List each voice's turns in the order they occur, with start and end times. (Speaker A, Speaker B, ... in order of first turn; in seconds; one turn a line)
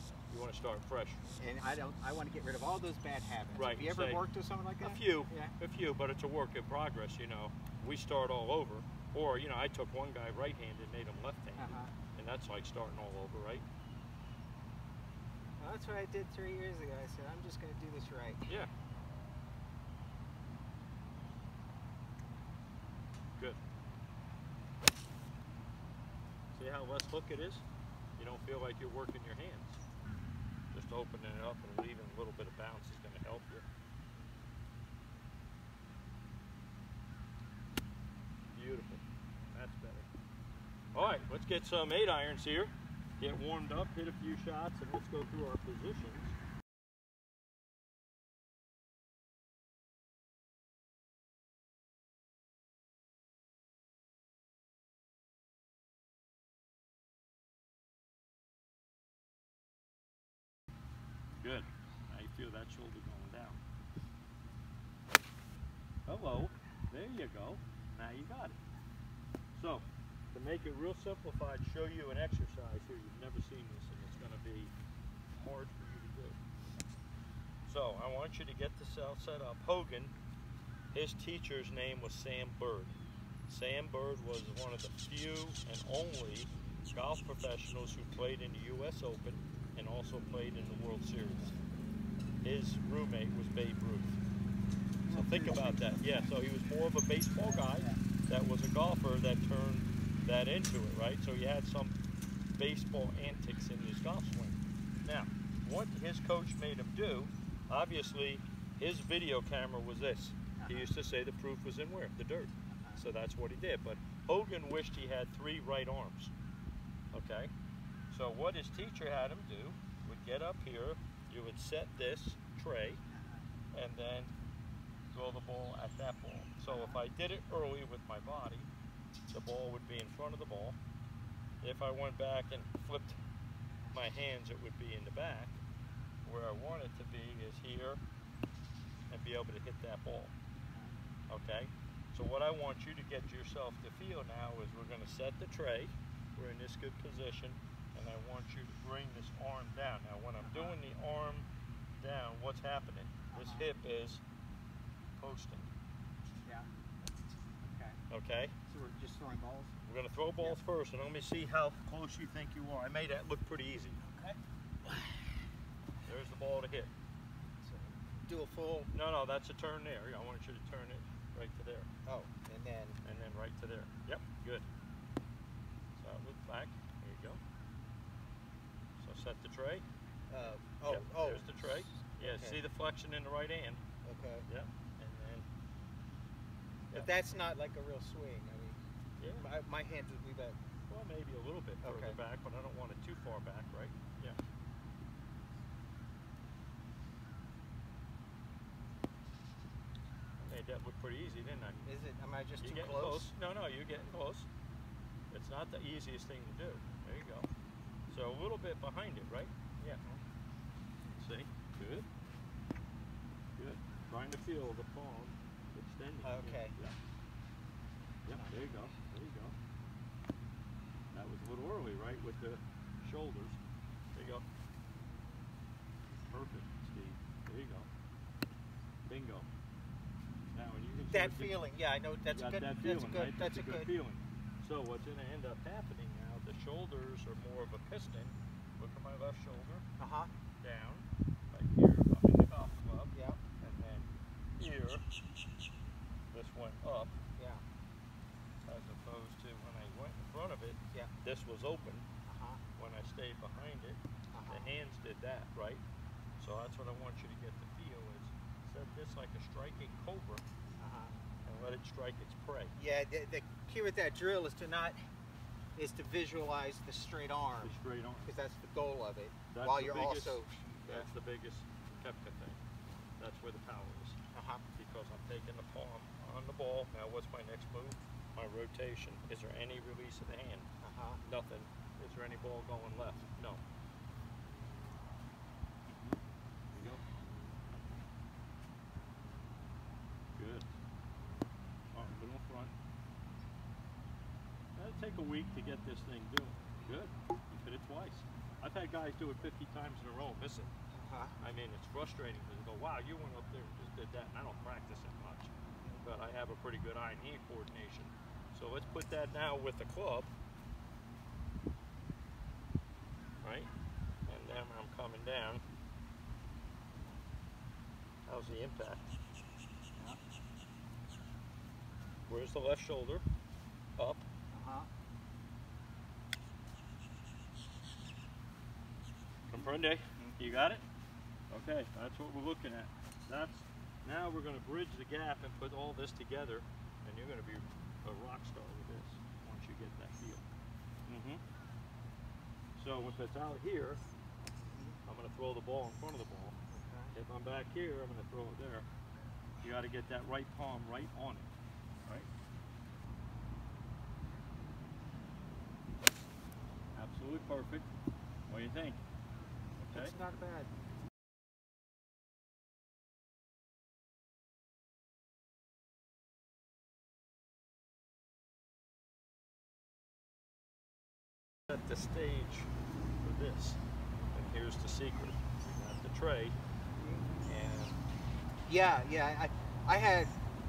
Speaker A: 0.3-1.2
Speaker B: 1.4-5.5
Speaker A: 3.5-4.2
Speaker A: 4.8-13.6
Speaker B: 11.6-11.9
Speaker B: 15.6-18.5
Speaker A: 26.5-27.6
Speaker A: 28.2-29.8
Speaker A: 30.7-33.6
Speaker A: 38.5-40.1
Speaker A: 40.9-46.3
Speaker A: 61.4-63.6
Speaker A: 66.1-68.6
Speaker A: 69.5-74.7
Speaker A: 75.3-76.4
Speaker A: 77.7-80.1
Speaker A: 80.9-83.0
Speaker A: 83.5-91.5
Speaker A: 92.4-94.2
Speaker B: 95.0-96.3
Speaker A: 95.1-102.0
Speaker B: 97.4-98.0
Speaker A: 102.5-116.3
Speaker B: 110.6-110.9
Speaker B: 112.7-113.0
Speaker A: 117.1-117.5
Speaker A: 118.1-123.0
Speaker B: 123.1-123.4
Speaker A: 123.7-124.3
Speaker A: 125.1-128.7
Speaker B: 126.7-127.0
Speaker A: 129.3-130.8
Speaker A: 131.6-133.2
Speaker A: 133.9-135.6
Speaker A: 136.2-138.0
Speaker A: 139.1-140.3
Speaker A: 141.3-151.5
Speaker B: 150.4-150.8
Speaker A: 152.0-154.2
Speaker B: 153.3-153.7
Speaker A: 155.2-155.7
Speaker B: 157.6-158.0
Speaker A: 158.1-158.6
Speaker B: 158.7-159.7
Speaker A: 159.9-164.0
Speaker B: 164.0-165.1
Speaker A: 166.1-166.9
Speaker B: 167.6-168.9
Speaker A: 168.9-171.9
Speaker B: 172.1-173.0
Speaker A: 173.0-174.7
Speaker A: 176.0-177.4
Speaker A: 179.0-179.8
Speaker B: 180.3-181.5
Speaker A: 180.8-183.8
Speaker B: 182.1-182.6
Speaker B: 184.0-184.5
Speaker A: 184.5-185.5
Speaker B: 186.9-188.8
Speaker A: 189.2-189.5
Speaker B: 189.4-190.6
Speaker A: 190.9-194.4
Speaker B: 191.8-192.2
Speaker A: 200.4-201.8
Speaker B: 201.8-203.3
Speaker A: 202.6-204.5
Speaker A: 205.3-207.5
Speaker A: 208.1-210.0
Speaker A: 211.1-212.1
Speaker A: 213.6-217.0
Speaker B: 216.2-216.8
Speaker A: 218.3-219.6
Speaker A: 221.1-223.6
Speaker A: 224.2-224.4
Speaker A: 226.3-227.9
Speaker A: 229.1-229.5
Speaker A: 230.5-231.6
Speaker B: 231.1-233.9
Speaker A: 232.3-239.8
Speaker B: 240.0-240.3
Speaker A: 240.6-245.1
Speaker B: 243.1-243.4
Speaker A: 246.3-247.2
Speaker B: 247.4-247.6
Speaker A: 248.7-252.1
Speaker B: 252.2-252.6
Speaker A: 252.8-255.8
Speaker B: 254.3-254.8
Speaker A: 256.4-260.4
Speaker B: 260.8-261.1
Speaker A: 261.4-262.7
Speaker B: 262.8-265.0
Speaker B: 265.8-271.1
Speaker A: 267.6-268.3
Speaker A: 269.5-272.6
Speaker A: 273.2-274.2
Speaker B: 274.3-274.6
Speaker A: 274.7-280.7
Speaker B: 280.8-281.2
Speaker A: 281.2-283.6
Speaker A: 285.9-286.2
Speaker A: 286.7-287.0
Speaker A: 290.4-290.7
Speaker A: 291.9-292.7
Speaker A: 294.8-300.7
Speaker B: 300.9-301.4
Speaker A: 301.4-310.3
Speaker A: 313.4-313.7
Speaker A: 314.3-315.6
Speaker A: 318.3-319.1
Speaker A: 322.3-323.2
Speaker A: 324.0-324.2
Speaker B: 324.5-324.9
Speaker B: 329.5-330.4
Speaker A: 329.5-330.9
Speaker A: 331.5-340.4
Speaker A: 341.1-341.4
Speaker A: 342.8-344.0
Speaker A: 345.1-346.6
Speaker B: 346.7-347.1
Speaker A: 347.1-348.9
Speaker A: 349.6-351.5
Speaker A: 356.9-357.9
Speaker A: 358.5-359.0
Speaker A: 359.8-360.1
Speaker B: 359.9-360.7
Speaker A: 371.7-372.7
Speaker A: 373.2-373.8
Speaker A: 374.3-376.6
Speaker A: 377.4-378.0
Speaker B: 378.7-380.3